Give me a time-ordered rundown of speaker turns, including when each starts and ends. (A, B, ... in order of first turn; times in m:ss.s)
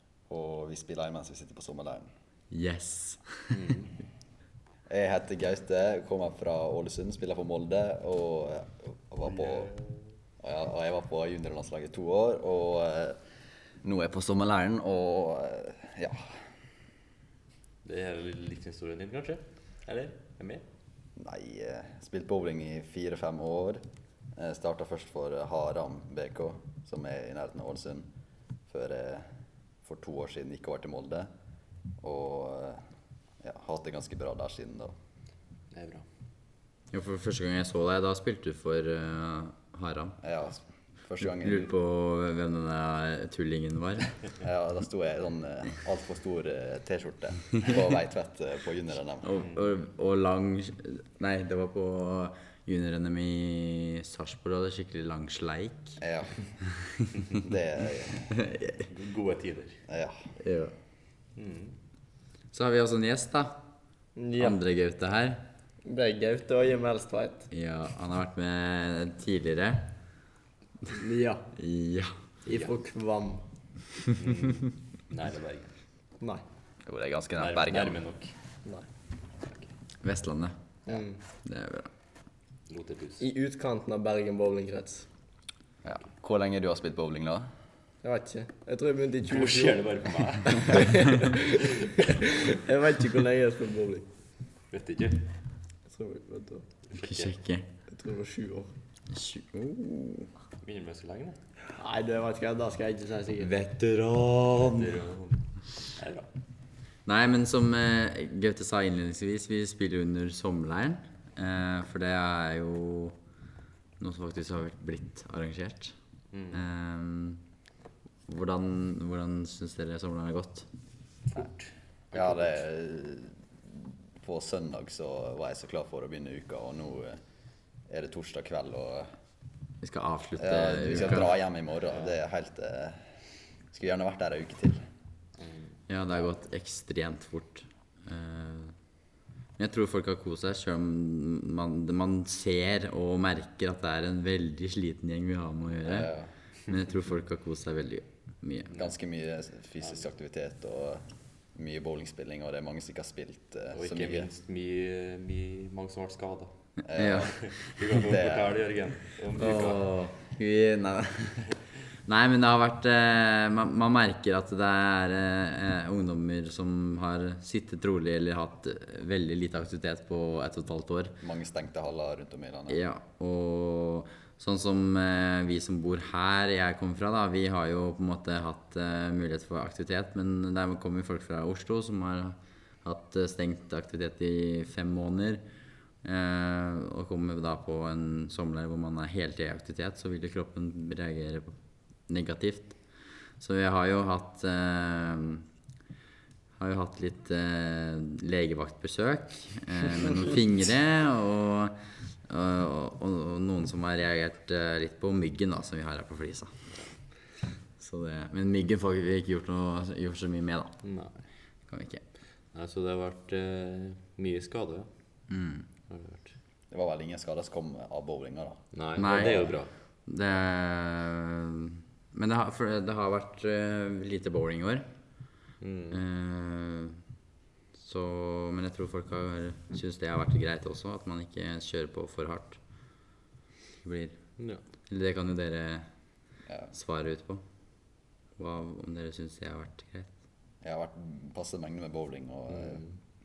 0:00.3-0:02.1 A
0:02.5-0:03.7 B
0:03.5-0:03.9 C
0:04.9-0:09.7 A
0:09.3-0:10.0 C
0:10.4-0:13.2 A
0:13.8-0:16.3 A
0:17.8-0:20.6 C
0:21.2-0:23.8 A
0:24.4-0:28.1 A
0:28.7-0:29.2 A
0:29.8-0:31.3 A
0:32.0-0:32.8 A
0:33.4-0:34.9 A
0:35.7-0:36.0 C
0:36.9-0:40.2 B
0:40.2-0:41.7 A
0:41.4-0:44.1 B
0:44.4-0:49.4 A
0:49.2-0:56.0 B
0:49.4-0:49.7 C
0:56.0-0:56.4 A
0:57.3-0:58.3 A
0:58.3-0:58.8 B
0:58.8-0:59.8 C
0:59.9-1:00.3 A
1:00.4-1:00.7 B
1:01.4-1:01.7 C
1:02.5-1:03.6 B
1:04.2-1:04.6 D
1:04.4-1:05.4 B
1:05.8-1:07.5 D
1:07.5-1:09.8 B
1:10.9-1:11.5 D
1:11.6-1:12.1 B
1:12.4-1:13.4 D
1:14.2-1:15.7 C
1:16.8-1:18.0 A
1:17.4-1:18.3 C
1:19.4-1:19.7 C
1:20.0-1:20.5 B
1:20.9-1:21.2 D
1:21.4-1:21.9 B
1:22.7-1:23.2 C
1:23.2-1:25.1 D
1:25.8-1:27.5 A
1:28.0-1:29.8 D
1:29.3-1:31.1 C
1:30.6-1:34.1 D
1:34.7-1:35.3 C
1:35.9-1:36.6 D
1:36.9-1:37.3 C
1:36.9-1:37.7 B
1:37.9-1:38.7 D
1:39.1-1:40.3 B
1:40.6-1:41.4 C
1:41.7-1:43.5 D
1:43.4-1:44.9 B
1:44.7-1:46.3 C
1:47.0-1:53.1 B
1:54.0-1:55.9 B
1:56.3-1:56.6 C
1:56.5-1:57.4 B
1:58.3-2:00.7 B
2:01.3-2:02.6 C
2:02.1-2:03.3 A
2:04.2-2:07.2 A
2:07.9-2:09.1 A
2:09.8-2:11.4 B
2:10.4-2:13.0 A
2:13.7-2:14.8 A
2:15.4-2:15.7 C
2:15.9-2:18.7 B
2:19.6-2:26.1 B
2:25.8-2:26.3 A
2:26.7-2:28.8 B
2:28.8-2:34.3 A
2:29.8-2:30.1 C
2:33.7-2:36.5 C
2:36.8-2:37.5 A
2:36.9-2:37.9 B
2:37.4-2:39.8 C
2:38.0-2:38.6 A
2:39.4-2:41.5 B
2:42.0-2:51.2 B
2:51.2-2:52.8 A
2:52.7-3:05.4 B
3:06.0-3:11.5 B
3:12.1-3:12.8 B
3:13.4-3:15.4 B
3:16.6-3:21.7 B
3:22.3-3:26.5 B
3:27.8-3:30.7 B
3:30.8-3:31.2 C
3:31.7-3:32.0 B
3:32.5-3:34.9 C
3:35.3-3:35.7 B
3:35.9-3:36.3 C
3:36.7-3:38.6 A
3:38.7-3:39.7 C
3:39.0-3:44.8 B
3:45.6-3:46.0 C
3:45.9-3:46.9 B
3:47.8-3:52.6 B
3:53.8-3:54.2 B
3:54.9-3:55.8 B
3:56.5-3:56.7 A
3:56.7-3:57.4 B
3:58.4-4:00.1 B
4:00.6-4:02.8 A
4:02.5-4:02.9 C